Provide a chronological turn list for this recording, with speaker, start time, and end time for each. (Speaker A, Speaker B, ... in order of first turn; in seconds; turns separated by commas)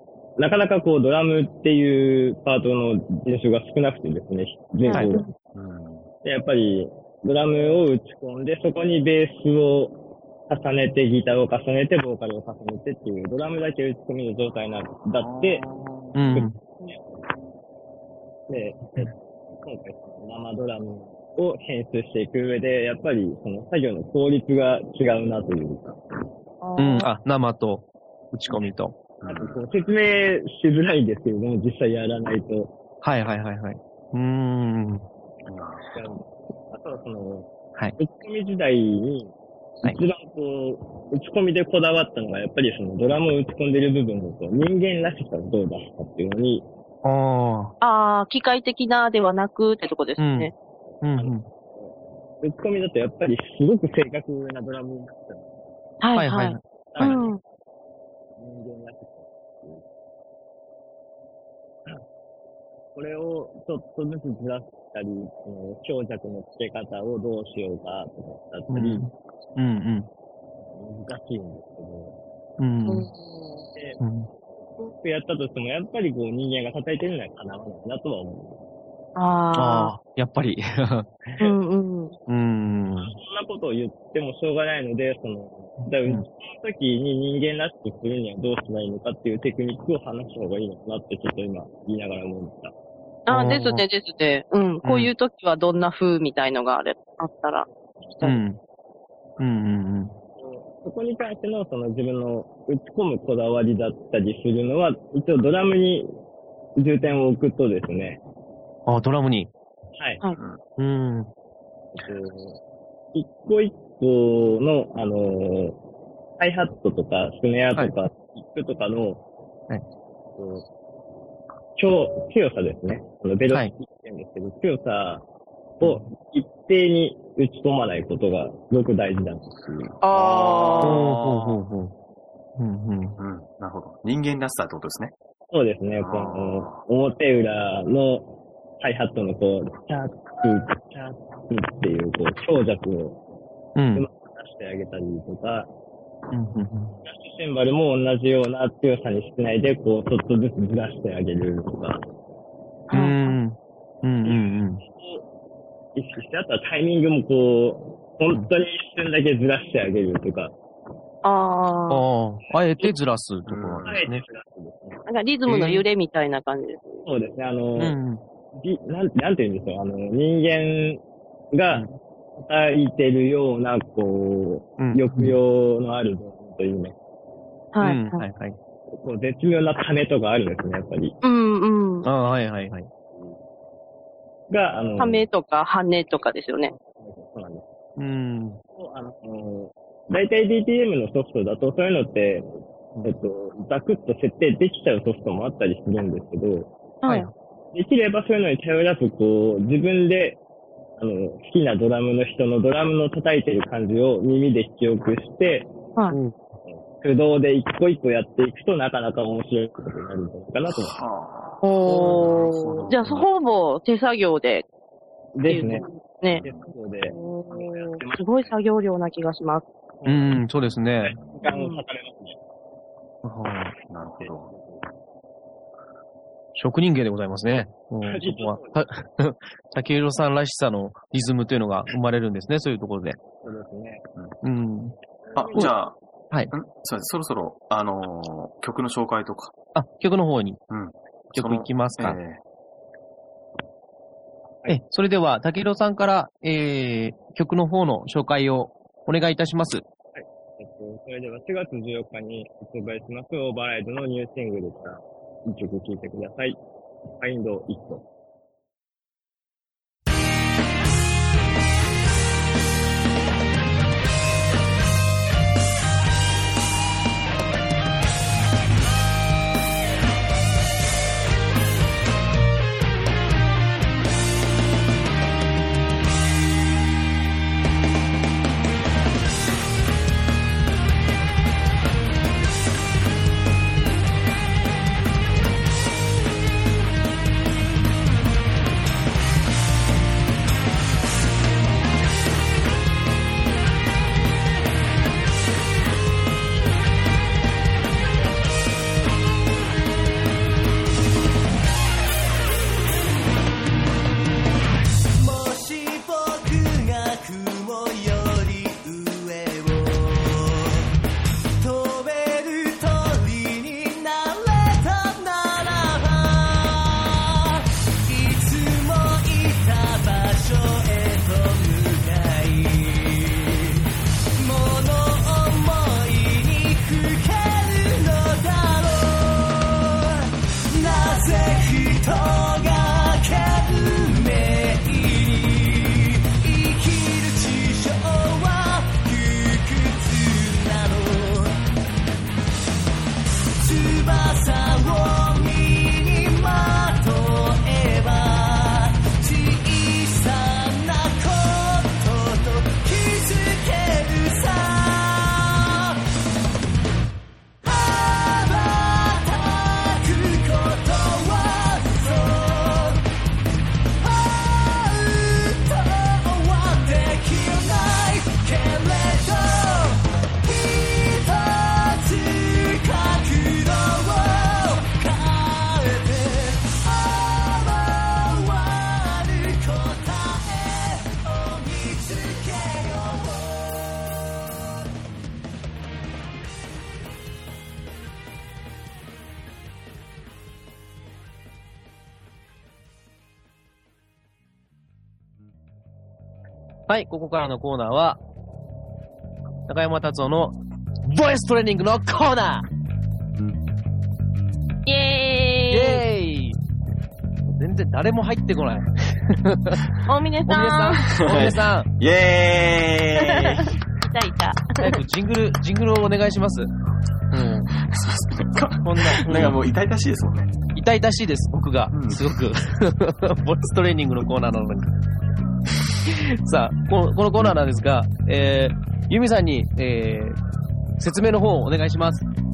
Speaker A: 0.4-5.2, Speaker B: 4.8-5.3, Speaker C: 5.5-6.1, Speaker A: 6.2-15.6, Speaker C: 15.2-16.2, Speaker D: 16.1-16.6, Speaker A: 16.3-17.2, Speaker A: 18.5-26.0, Speaker B: 26.6-27.1, Speaker D: 26.8-28.9, Speaker C: 29.2-29.6, Speaker A: 29.2-32.7, Speaker D: 33.0-35.0, Speaker C: 35.5-35.9, Speaker A: 35.9-46.6, Speaker D: 47.0-47.7, Speaker B: 47.8-50.5, Speaker D: 50.2-50.5, Speaker A: 50.9-55.5, Speaker D: 51.0-51.4, Speaker B: 56.0-57.4, Speaker D: 56.1-57.2, Speaker A: 56.9-57.4, Speaker A: 58.4-59.8, Speaker A: 62.9-69.1, Speaker D: 68.7-70.1, Speaker A: 70.6-72.2, Speaker D: 72.6-73.1, Speaker B: 72.8-73.7, Speaker A: 73.7-74.0, Speaker D: 74.0-74.3, Speaker A: 74.8-78.6, Speaker B: 79.2-79.9, Speaker D: 79.5-81.3, Speaker B: 81.4-82.1, Speaker D: 82.3-83.1, Speaker A: 83.0-92.7, Speaker B: 93.3-97.7, Speaker D: 93.3-93.8, Speaker D: 94.8-95.1, Speaker D: 98.2-98.6, Speaker D: 99.4-100.1, Speaker A: 100.4-106.1, Speaker A: 106.8-108.2, Speaker D: 108.8-109.5, Speaker A: 110.0-110.2, Speaker D: 110.8-111.3, Speaker A: 111.9-112.6, Speaker A: 113.1-115.8, Speaker A: 116.4-119.2, Speaker A: 120.3-120.7, Speaker A: 121.8-125.2, Speaker A: 125.8-130.0, Speaker B: 130.0-130.9, Speaker C: 130.1-131.6, Speaker D: 130.8-131.9, Speaker D: 132.6-133.2, Speaker C: 133.2-135.1, Speaker A: 135.5-143.2, Speaker C: 136.0-136.8, Speaker D: 143.8-144.1, Speaker A: 143.9-145.7, Speaker D: 146.3-146.9, Speaker A: 147.0-152.0, Speaker B: 152.9-153.4, Speaker D: 152.9-154.8, Speaker A: 154.2-155.2, Speaker A: 155.9-160.5, Speaker B: 161.2-162.0, Speaker D: 161.9-164.2, Speaker C: 163.5-164.0, Speaker A: 163.8-165.0, Speaker B: 165.1-167.1, Speaker D: 165.5-165.8, Speaker A: 167.1-167.9, Speaker D: 167.8-168.2, Speaker A: 168.5-176.9, Speaker D: 174.8-175.3, Speaker B: 177.7-178.2, Speaker D: 177.8-178.6, Speaker A: 178.9-181.2, Speaker B: 181.2-182.1, Speaker D: 182.0-182.9, Speaker A: 184.5-185.3, Speaker B: 185.0-186.7, Speaker A: 186.7-187.6, Speaker D: 188.0-188.6, Speaker A: 188.7-192.5, Speaker A: 193.0-196.7, Speaker B: 197.0-197.3, Speaker D: 197.1-197.3, Speaker A: 197.7-200.4, Speaker A: 201.0-205.7, Speaker D: 206.1-206.4, Speaker A: 206.7-211.0, Speaker C: 210.7-213.3, Speaker B: 211.6-214.6, Speaker A: 215.3-215.8, Speaker B: 215.4-216.4, Speaker C: 216.3-216.7, Speaker A: 216.4-218.5, Speaker B: 217.0-219.6, Speaker A: 220.0-220.4, Speaker D: 220.1-221.1, Speaker A: 221.0-222.4, Speaker B: 221.4-221.8, Speaker D: 223.2-223.7, Speaker C: 223.9-224.5, Speaker A: 224.0-224.8, Speaker D: 226.6-233.2, Speaker A: 228.0-228.8, Speaker A: 233.4-234.0, Speaker D: 234.4-234.9, Speaker A: 235.2-235.7, Speaker C: 235.3-236.0, Speaker C: 236.5-239.5, Speaker D: 239.7-240.6, Speaker C: 240.7-242.4, Speaker D: 241.3-242.2, Speaker D: 244.7-249.8, Speaker A: 250.1-256.6, Speaker A: 257.1-258.0, Speaker E: 305.1-310.9, Speaker E: 311.6-323.8, Speaker E: 324.4-341.6, Speaker E: 343.6-356.0, Speaker E: 357.6-363.0, Speaker E: 364.0-384.2, Speaker D: 396.9-398.2, Speaker D: 399.7-402.6, Speaker B: 404.9-406.0, Speaker D: 405.7-406.6, Speaker D: 407.5-409.9, Speaker B: 410.1-411.2, Speaker D: 410.5-411.9, Speaker C: 411.2-413.7, Speaker B: 413.2-415.0, Speaker D: 414.8-416.7, Speaker D: 417.3-417.7, Speaker C: 417.7-420.5, Speaker D: 418.8-419.6, Speaker D: 420.8-424.9, Speaker C: 421.9-422.2, Speaker D: 426.1-430.4, Speaker D: 431.0-432.2